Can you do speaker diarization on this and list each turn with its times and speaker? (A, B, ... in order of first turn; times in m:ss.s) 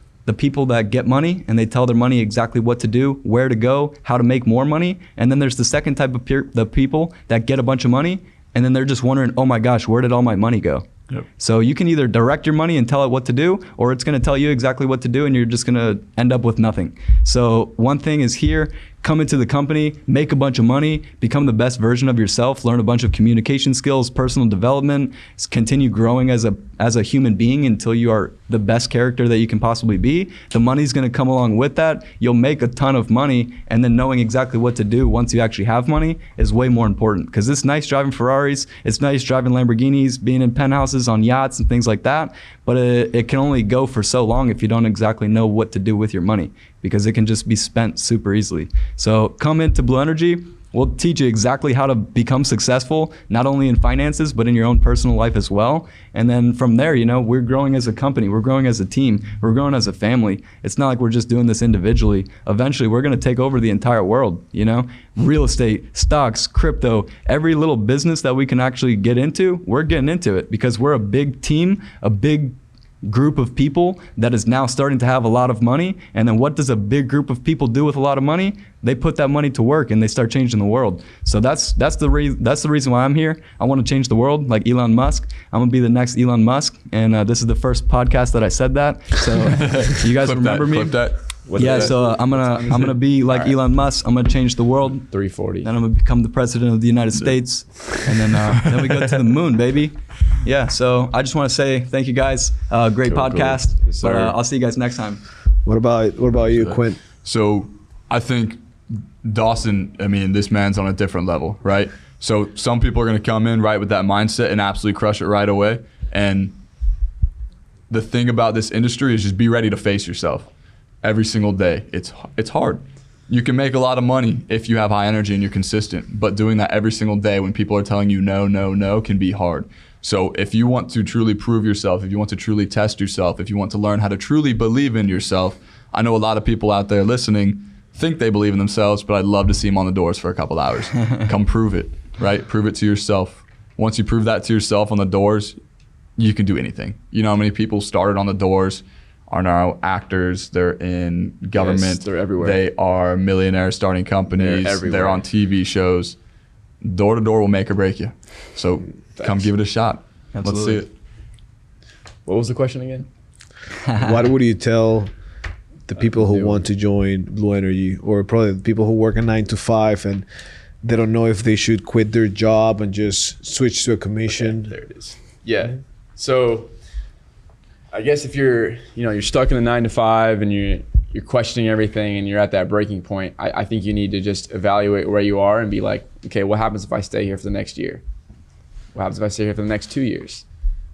0:00.2-1:31.0 A
1:29.6-1:31.9 B
1:31.4-1:33.5 C
1:31.6-1:35.1 A
1:35.0-1:35.7 C
1:35.6-1:45.2 A
1:38.8-1:39.2 B
1:43.1-1:44.3 C
1:45.6-1:47.0 D
1:46.3-1:48.7 B
1:49.2-1:56.6 B
1:57.9-2:00.5 B
2:01.0-2:25.6 B
2:26.2-2:36.2 B
2:31.5-2:32.6 C
2:34.3-2:35.2 C
2:36.8-2:40.9 B
2:39.2-2:39.5 C
2:40.3-2:40.8 A
2:42.2-2:43.1 C
2:43.8-2:44.2 A
2:44.0-2:45.1 D
2:45.9-2:50.2 D
2:46.0-2:46.6 C
2:50.8-2:54.7 D
2:54.3-2:56.7 C
2:57.9-3:08.0 C
3:08.9-3:10.4 C